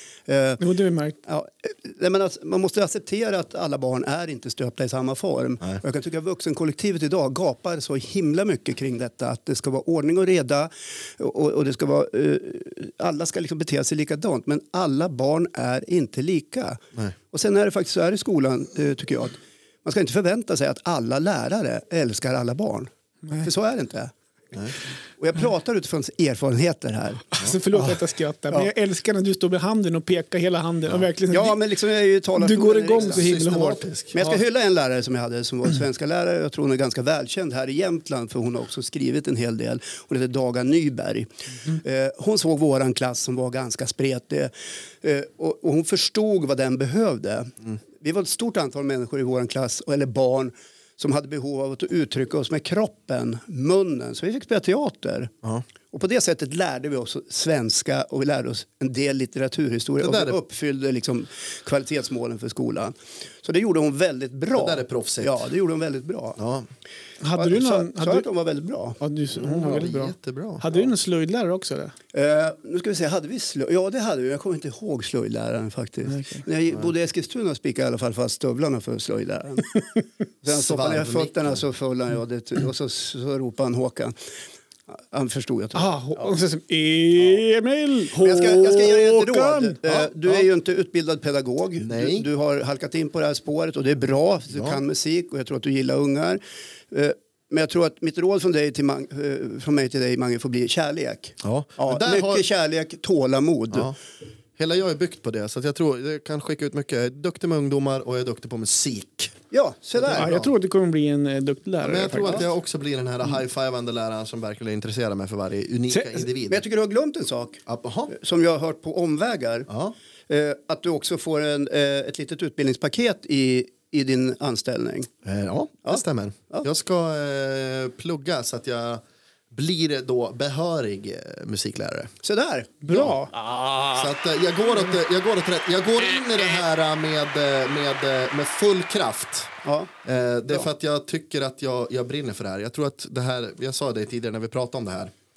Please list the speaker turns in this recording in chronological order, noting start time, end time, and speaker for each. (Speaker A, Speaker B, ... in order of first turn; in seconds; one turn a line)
Speaker A: 0.3-0.6
Speaker B: 0.6-1.2
Speaker A: 1.2-22.9
Speaker A: 23.4-24.1
Speaker A: 25.2-28.0
Speaker B: 27.4-31.6
Speaker A: 31.3-33.2
Speaker B: 32.4-34.4
Speaker C: 33.0-34.2
Speaker A: 34.1-55.3
Speaker A: 55.9-66.4
Speaker C: 60.0-60.4
Speaker C: 64.5-65.4
Speaker C: 66.4-66.7
Speaker B: 67.2-68.2
Speaker A: 67.3-69.0
Speaker B: 69.0-71.9
Speaker C: 69.3-70.6
Speaker A: 72.1-79.8
Speaker B: 76.0-76.5
Speaker A: 80.4-84.1
Speaker C: 80.5-81.6
Speaker A: 84.9-86.3
Speaker B: 85.7-89.8
Speaker C: 88.1-88.8
Speaker A: 88.2-103.9
Speaker C: 89.9-90.5
Speaker C: 91.8-92.3
Speaker C: 94.5-94.8
Speaker C: 101.4-102.4
Speaker C: 104.6-109.3
Speaker A: 109.5-110.4
Speaker C: 110.0-110.5
Speaker B: 110.1-112.4
Speaker C: 111.8-116.6
Speaker B: 115.9-116.2
Speaker A: 116.5-119.7
Speaker C: 117.7-118.1
Speaker C: 119.7-119.9
Speaker A: 120.3-125.1
Speaker C: 125.2-132.1
Speaker A: 125.8-126.7
Speaker A: 132.2-132.8
Speaker B: 132.8-133.8
Speaker C: 133.9-139.5
Speaker A: 139.6-139.9
Speaker C: 140.0-145.1